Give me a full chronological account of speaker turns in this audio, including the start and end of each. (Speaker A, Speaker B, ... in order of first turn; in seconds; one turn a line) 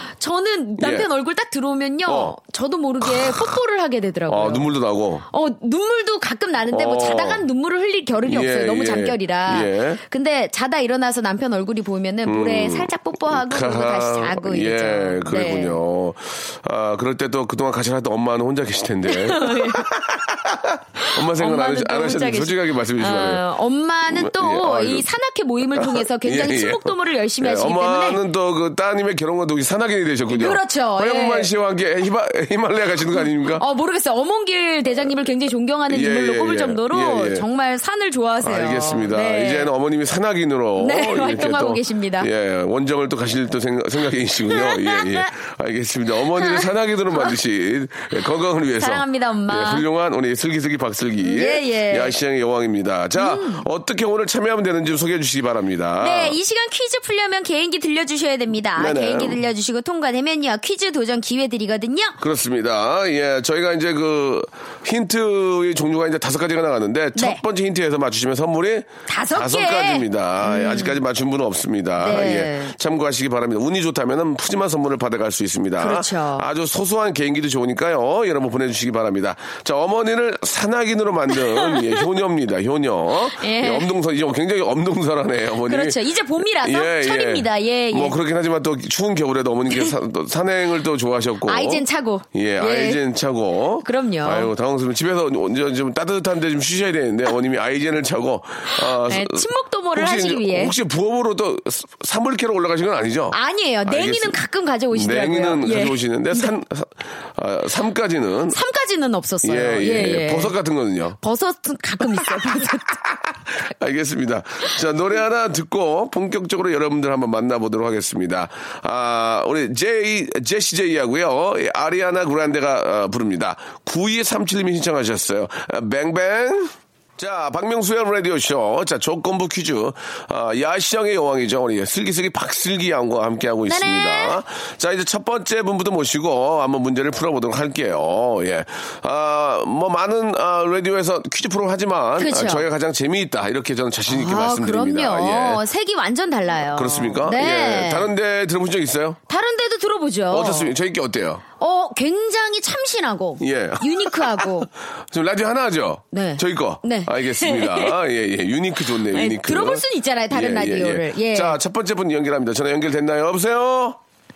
Speaker A: 0.2-4.7
Speaker B: 0.8-1.1
Speaker B: 2.1-2.4
Speaker B: 3.0-3.5
Speaker B: 4.3-5.3
Speaker A: 5.3-15.8
Speaker B: 6.7-7.5
Speaker B: 8.3-10.0
Speaker B: 12.2-23.4
Speaker A: 19.1-19.9
Speaker A: 21.0-28.2
Speaker B: 24.1-25.1
Speaker B: 25.6-33.6
Speaker A: 30.3-31.5
Speaker A: 33.1-39.7
Speaker B: 35.9-37.5
Speaker B: 38.4-56.4
Speaker A: 40.8-42.3
Speaker A: 44.5-45.3
Speaker A: 46.3-47.4
Speaker A: 48.8-49.9
Speaker A: 51.2-52.2
Speaker A: 53.2-53.7
Speaker A: 56.0-62.2
Speaker B: 58.8-59.4
Speaker B: 62.2-104.4
Speaker A: 67.2-67.4
Speaker A: 69.1-71.0
Speaker A: 72.0-72.7
Speaker A: 75.8-76.5
Speaker A: 81.6-82.0
Speaker A: 83.4-83.9
Speaker A: 85.7-88.2
Speaker A: 89.7-90.0
Speaker A: 91.5-93.0
Speaker A: 93.8-94.5
Speaker A: 98.7-100.8
Speaker A: 103.3-106.5
Speaker B: 104.9-108.6
Speaker A: 108.5-110.5
Speaker B: 109.4-111.2
Speaker A: 111.2-113.0
Speaker B: 113.7-145.6
Speaker A: 133.7-134.4
Speaker A: 142.2-142.7
Speaker A: 144.1-148.1
Speaker B: 146.7-149.2
Speaker A: 149.3-150.7
Speaker B: 150.3-151.4
Speaker A: 151.6-154.7
Speaker B: 153.4-164.0
Speaker A: 156.1-158.0
Speaker A: 159.1-161.6